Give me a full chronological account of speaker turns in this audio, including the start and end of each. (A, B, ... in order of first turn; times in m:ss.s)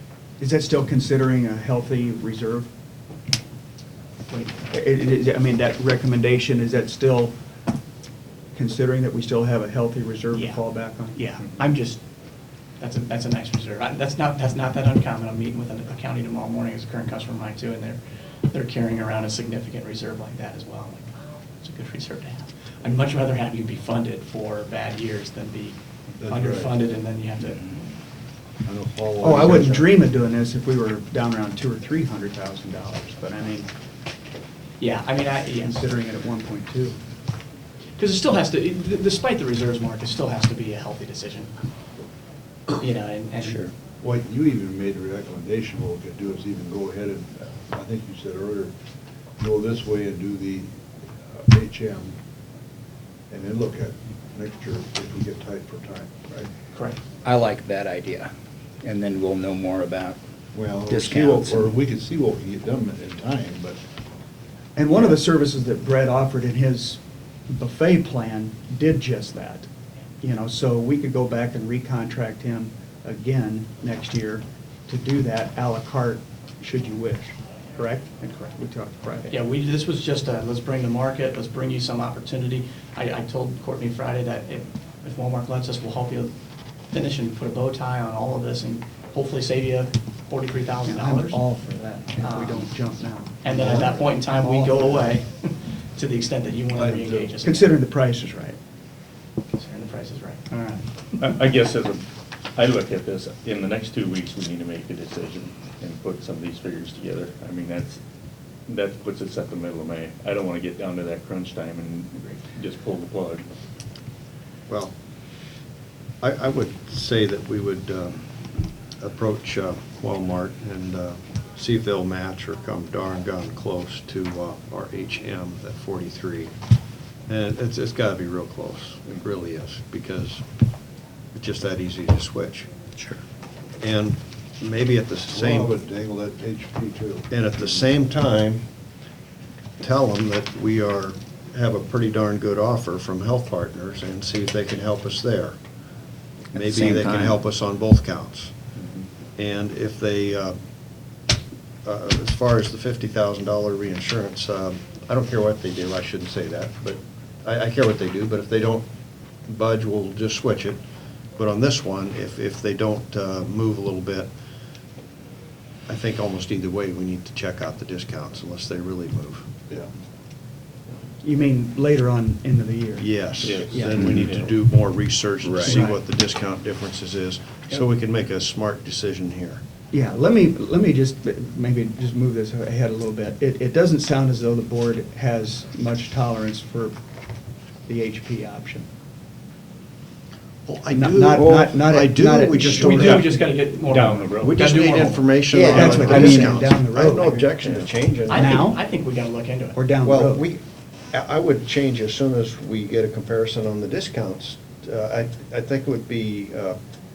0:00.4-0:02.7 A
0:04.7-0:07.3 A
0:08.6-0:11.2 A
0:10.3-0:10.6 B
0:11.2-0:12.0 B
0:12.8-0:25.8 B
0:26.2-0:26.8 C
0:26.3-0:27.7 B
0:28.6-0:29.9 C
0:29.2-0:33.7 A
0:34.8-0:35.8 B
0:35.6-0:37.0 A
0:38.0-0:41.5 B
0:42.8-0:43.7 B
0:44.0-0:48.7 C
0:49.4-0:50.7 C
0:51.2-0:52.2 C
0:53.3-0:56.5 C
0:56.7-0:57.0 B
0:57.2-1:00.2 D
1:00.5-1:03.8 C
1:00.9-1:01.8 D
1:04.8-1:09.7 A
1:10.2-1:19.3 A
1:19.3-1:26.3 B
1:26.9-1:31.4 B
1:30.8-1:35.2 A
1:32.2-1:32.7 B
1:33.4-1:37.7 B
1:36.8-1:37.3 C
1:37.4-1:38.6 A
1:39.5-1:40.9 B
1:41.2-1:48.0 E
1:48.7-1:53.5 E
1:56.2-1:58.2 F
1:59.0-2:06.5 F
2:07.3-2:10.4 F
2:11.4-2:12.7 F
2:13.8-2:15.7 F
2:15.3-2:17.3 C
2:17.3-2:18.6 F
2:19.8-2:25.6 F
2:26.5-2:27.4 D
2:26.5-2:28.5 F
2:28.8-2:29.1 E
2:29.4-2:30.6 F
2:31.8-2:38.8 F
2:39.5-2:40.8 F
2:41.4-2:44.3 F
2:45.9-2:49.5 F
2:51.2-2:54.1 A
2:53.0-2:59.6 F
2:53.4-2:54.6 E
2:55.4-2:55.7 D
2:55.6-2:56.0 A
2:59.9-3:07.0 A
3:07.9-3:08.9 A
3:10.7-3:13.3 F
3:10.9-3:13.4 A
3:12.6-3:15.3 B
3:13.0-3:14.7 E
3:14.4-3:18.7 F
3:15.5-3:15.8 D
3:15.6-3:17.5 A
3:15.9-3:16.2 E
3:15.9-3:16.3 B
3:17.6-3:17.9 E
3:18.2-3:18.8 A
3:18.3-3:19.8 B
3:19.8-3:20.4 A
3:20.0-3:26.8 F